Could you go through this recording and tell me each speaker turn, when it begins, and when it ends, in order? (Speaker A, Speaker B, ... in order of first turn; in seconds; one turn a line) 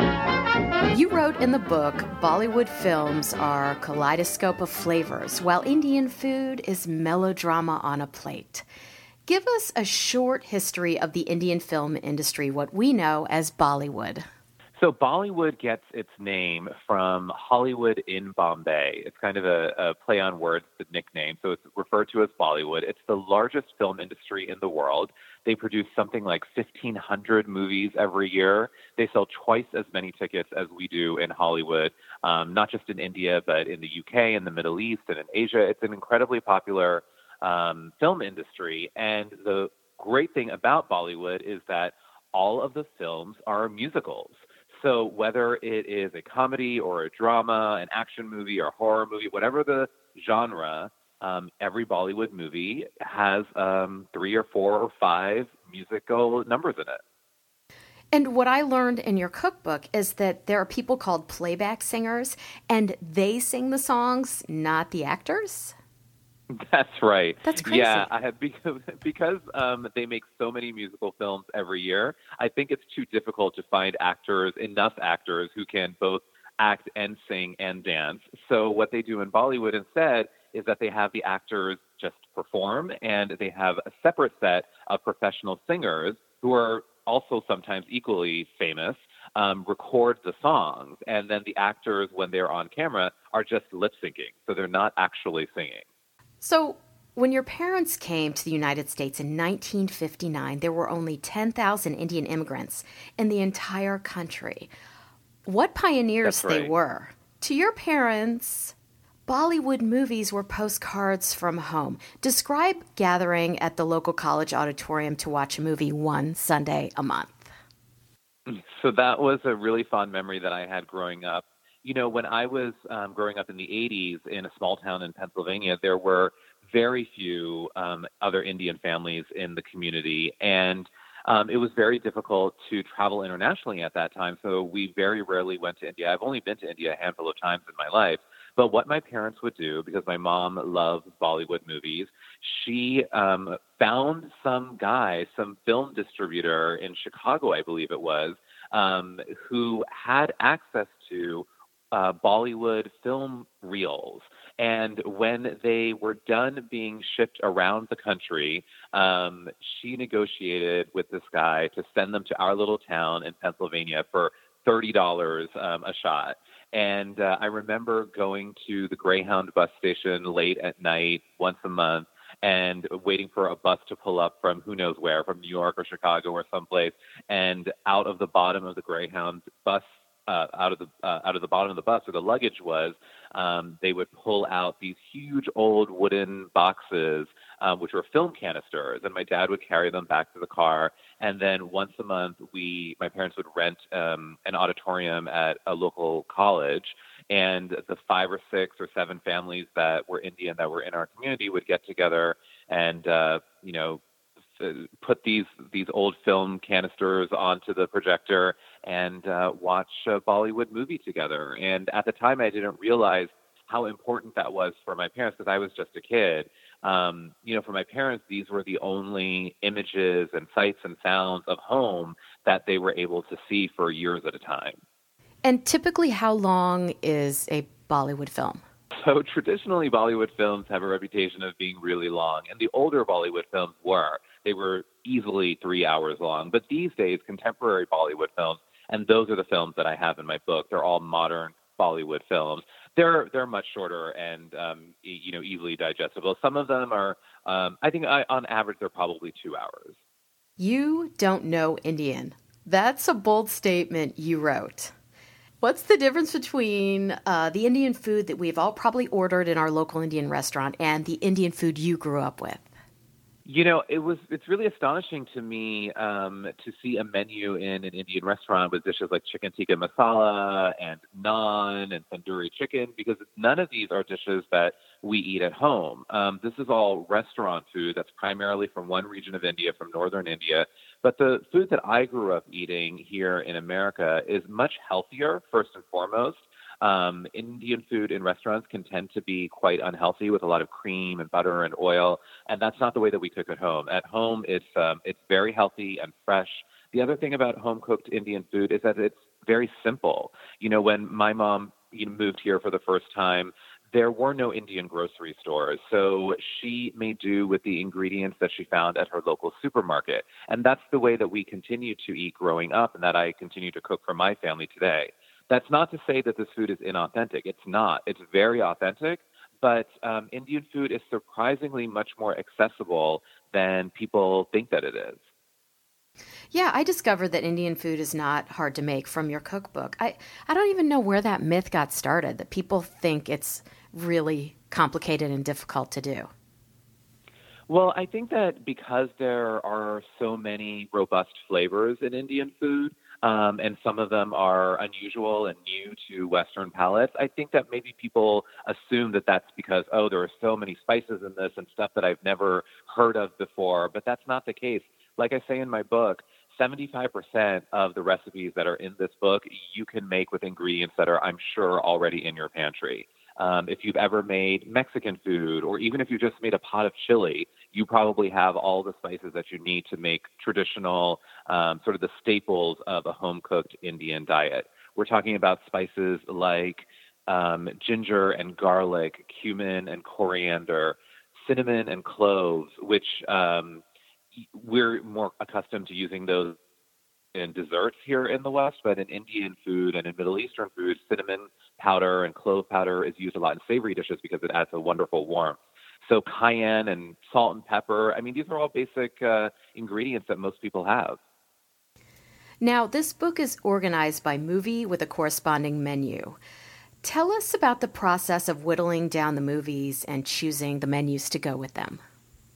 Speaker A: 0.9-8.7
Speaker A: 9.2-14.2
Speaker B: 14.8-57.0
Speaker A: 58.1-65.7
Speaker B: 66.5-95.8
Speaker A: 67.4-68.1
Speaker A: 96.4-104.7
Speaker A: 105.5-108.7
Speaker B: 106.2-106.7
Speaker A: 109.3-117.5
Speaker B: 118.5-204.0
Speaker B: 204.6-224.8
Speaker A: 225.4-228.6
Speaker B: 228.9-250.0
Speaker A: 250.6-254.9
Speaker A: 255.6-262.7
Speaker B: 263.4-325.2
Speaker A: 326.5-336.3
Speaker B: 337.7-383.8
Speaker B: 384.5-386.6
Speaker B: 387.3-401.2
Speaker A: 402.6-406.4
Speaker A: 407.0-412.0